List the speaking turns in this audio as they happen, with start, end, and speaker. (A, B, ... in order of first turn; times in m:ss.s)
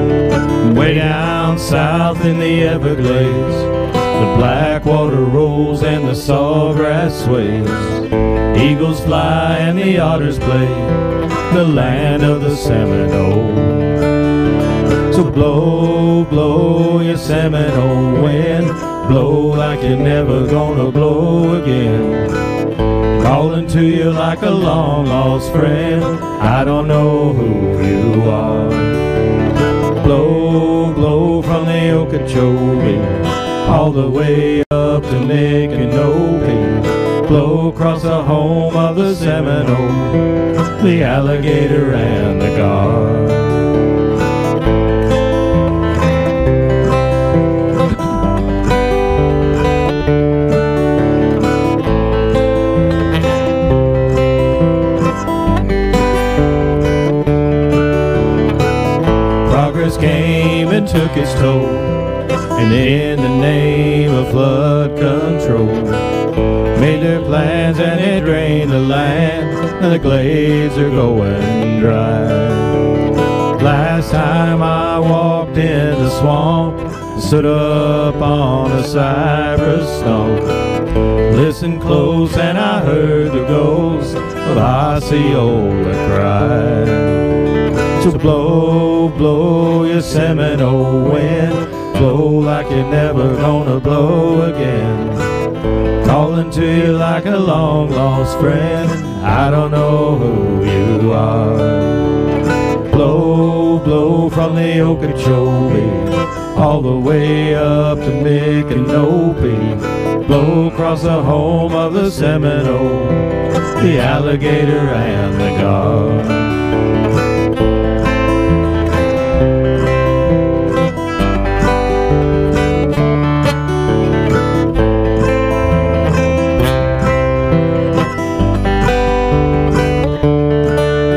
0:00.5-0:14.1 A
0:15.0-0:22.4 A
0:23.1-0:29.1 A
0:29.9-0:43.7 A
0:59.4-1:06.1 A
1:06.6-1:13.0 A
1:13.5-1:20.6 A
1:21.2-1:35.3 A
1:36.0-1:42.2 A
1:42.8-1:56.7 A